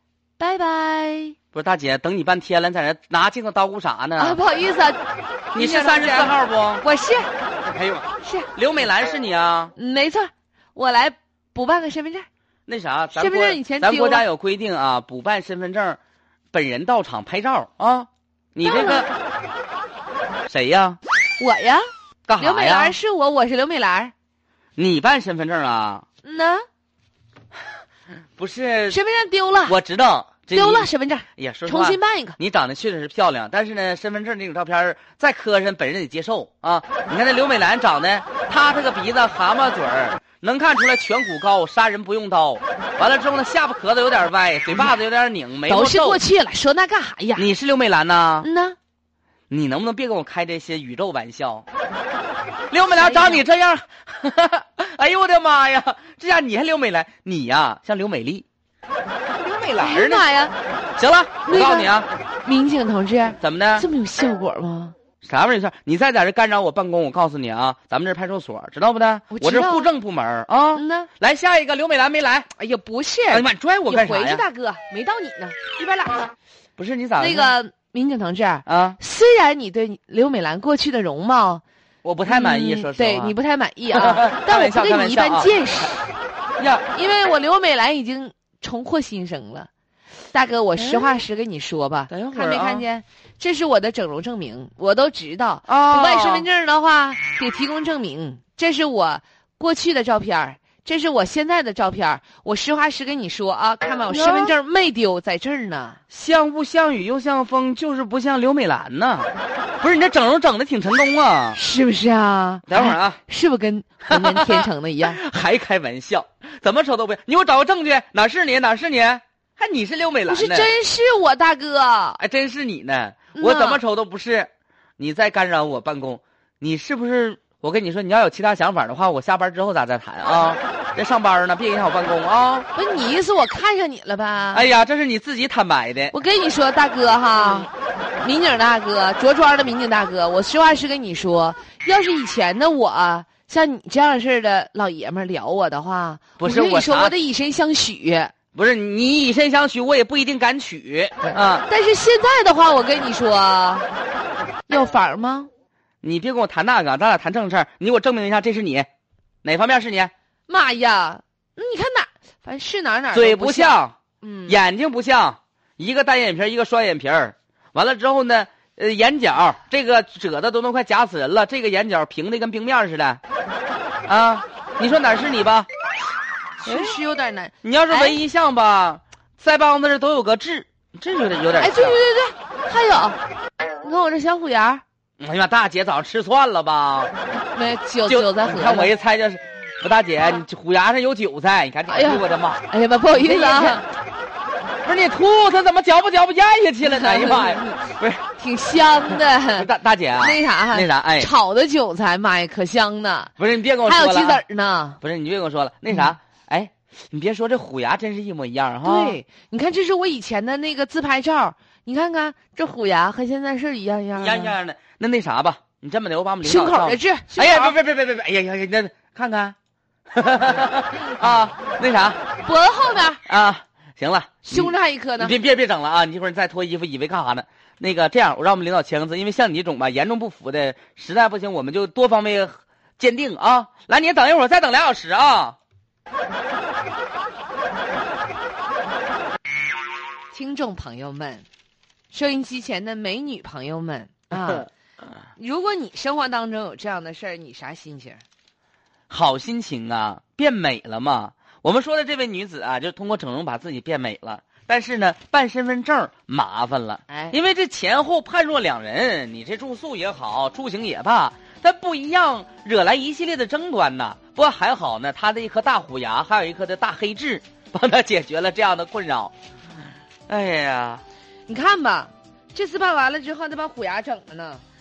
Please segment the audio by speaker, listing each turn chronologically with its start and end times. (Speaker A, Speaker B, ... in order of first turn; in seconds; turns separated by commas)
Speaker A: 0.4-1.3, Speaker B: 1.5-4.4, Speaker A: 4.2-5.0, Speaker A: 5.5-7.3, Speaker B: 5.5-6.8, Speaker B: 7.6-9.7, Speaker A: 8.2-8.5, Speaker A: 9.8-12.3, Speaker B: 12.7-16.0, Speaker A: 13.1-14.2, Speaker B: 16.5-19.1, Speaker A: 18.6-19.1, Speaker B: 20.5-21.0, Speaker A: 21.4-21.9, Speaker B: 22.3-22.9, Speaker A: 22.4-24.1, Speaker B: 24.8-26.0, Speaker A: 26.2-26.6, Speaker B: 28.4-29.0, Speaker A: 28.9-29.8, Speaker B: 29.7-46.2, Speaker A: 30.5-32.4, Speaker A: 45.7-47.5, Speaker B: 47.4-48.5, Speaker A: 48.4-48.8, Speaker B: 49.5-51.6, Speaker B: 52.7-58.4, Speaker A: 52.9-53.4, Speaker B: 59.4-60.2, Speaker A: 59.8-60.5, Speaker B: 61.0-62.1, Speaker A: 61.5-64.9, Speaker B: 63.4-63.9, Speaker B: 65.2-72.5, Speaker A: 69.3-69.9, Speaker A: 70.7-71.1, Speaker A: 72.5-76.3, Speaker B: 73.3-74.4, Speaker B: 76.8-77.5, Speaker A: 77.2-81.6, Speaker B: 78.7-79.0, Speaker B: 82.0-83.3, Speaker A: 82.3-86.1, Speaker B: 83.9-85.5, Speaker B: 86.6-86.8, Speaker A: 86.9-89.7, Speaker A: 90.3-106.0, Speaker B: 90.8-91.2, Speaker B: 92.1-92.8, Speaker B: 95.7-96.5, Speaker B: 104.1-104.5, Speaker B: 106.1-109.3, Speaker B: 109.8-111.6, Speaker A: 111.5-115.2, Speaker B: 112.7-113.2, Speaker B: 114.1-120.7, Speaker A: 120.3-122.2, Speaker B: 122.2-132.7, Speaker A: 123.3-123.8, Speaker A: 132.7-134.6, Speaker B: 134.5-136.1, Speaker A: 136.1-148.3, Speaker B: 146.4-147.1, Speaker B: 148.5-151.7, Speaker A: 151.2-153.9, Speaker A: 154.7-155.5, Speaker B: 156.0-158.9, Speaker B: 159.4-160.1, Speaker A: 160.5-164.6, Speaker B: 163.1-163.9, Speaker B: 164.5-173.2, Speaker B: 174.1-175.7, Speaker A: 176.6-178.2, Speaker B: 176.6-177.0, Speaker B: 177.6-182.0, Speaker A: 181.6-183.2, Speaker A: 183.8-184.8, Speaker B: 185.2-187.1, Speaker A: 187.3-188.9, Speaker B: 188.1-192.6, Speaker A: 191.9-193.8, Speaker B: 193.1-193.8, Speaker B: 194.8-198.2, Speaker A: 196.8-203.3, Speaker B: 199.1-201.3, Speaker B: 203.4-204.4, Speaker A: 203.8-205.0, Speaker B: 205.0-209.2, Speaker A: 208.8-214.5, Speaker B: 214.1-219.5, Speaker A: 216.4-217.8, Speaker B: 220.1-222.2, Speaker A: 222.4-223.2, Speaker B: 223.2-235.6, Speaker A: 224.4-225.3, Speaker A: 240.3-241.4, Speaker A: 242.1-244.7, Speaker A: 245.3-248.2, Speaker B: 249.1-269.3, Speaker A: 257.1-257.4, Speaker B: 270.3-271.0, Speaker A: 271.5-274.6